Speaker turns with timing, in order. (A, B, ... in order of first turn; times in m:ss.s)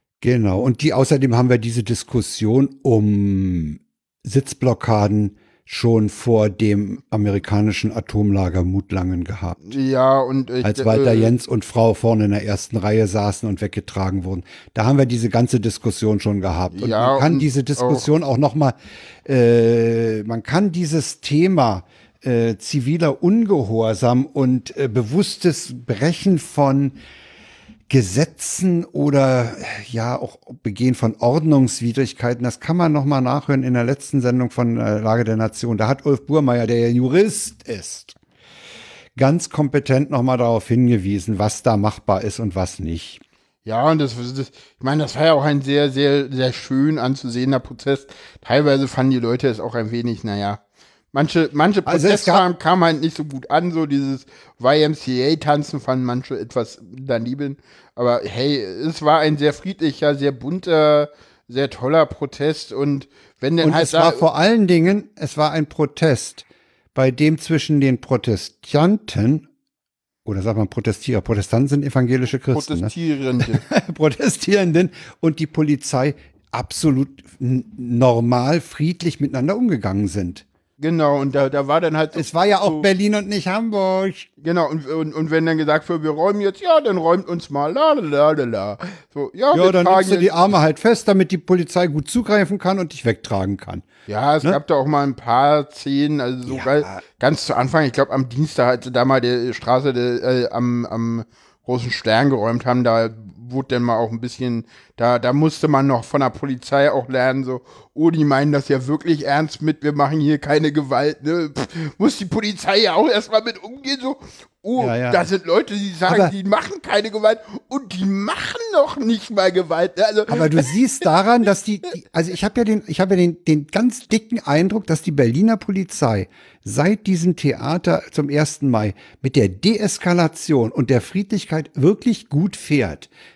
0:00.2-0:09.8 A
0:09.6-0:11.3 B
0:10.6-0:27.0 A
0:16.7-0:18.0 B
0:27.9-0:38.2 A
0:39.2-0:43.2 A
0:43.6-0:50.6 B
0:51.1-1:04.2 B
0:51.9-0:52.4 A
1:03.6-1:09.4 A
1:10.2-1:20.4 A
1:12.5-1:13.6 B
1:20.8-1:22.9 B
1:22.1-1:24.3 A
1:24.4-1:30.3 B
1:29.5-1:33.9 A
1:34.1-2:00.8 B
1:36.4-1:37.0 A
1:54.8-1:55.2 A
1:56.1-1:56.3 A
2:00.3-2:13.1 A